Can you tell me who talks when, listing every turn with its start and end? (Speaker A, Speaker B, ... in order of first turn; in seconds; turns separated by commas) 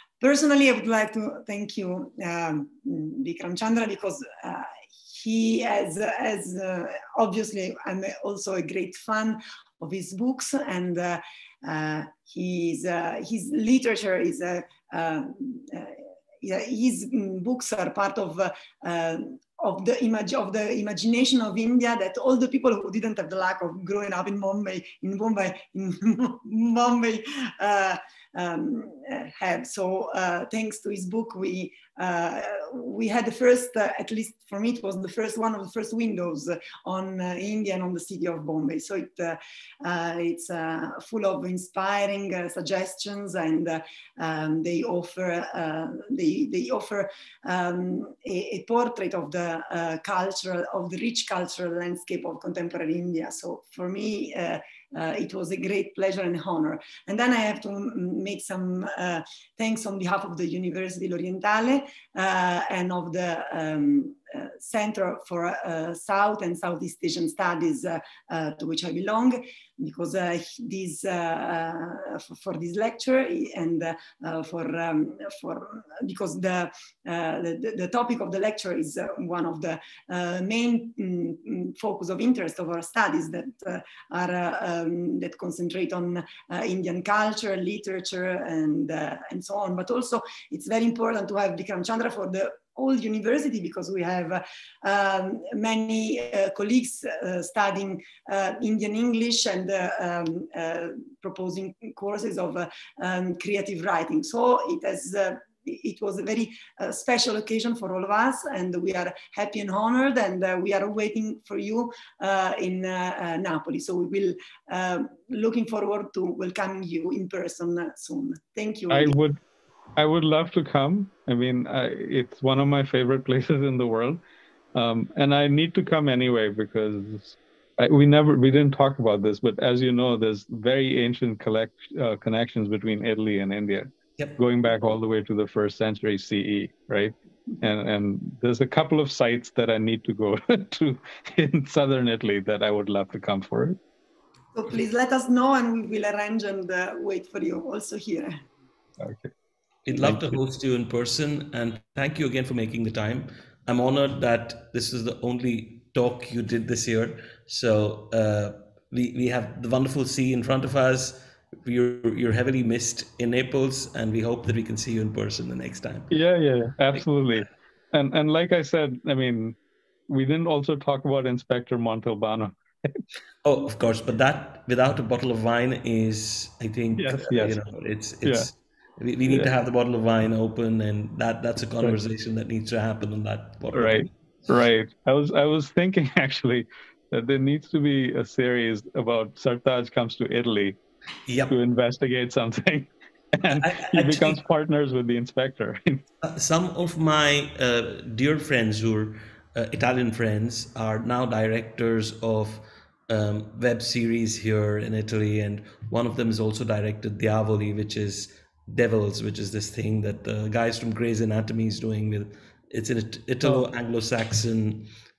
Speaker A: 0.2-119.1, Speaker B: 118.9-119.4, Speaker B: 120.0-124.2, Speaker B: 124.7-143.8, Speaker A: 144.5-148.3, Speaker B: 149.0-149.3, Speaker C: 149.8-166.1, Speaker B: 149.9-150.4, Speaker B: 166.1-169.6, Speaker B: 170.1-173.0, Speaker C: 173.4-184.1, Speaker B: 177.0-177.6, Speaker B: 178.2-178.5, Speaker B: 183.7-190.8, Speaker C: 191.3-191.5, Speaker B: 191.5-196.0, Speaker C: 193.5-194.4, Speaker C: 196.2-214.9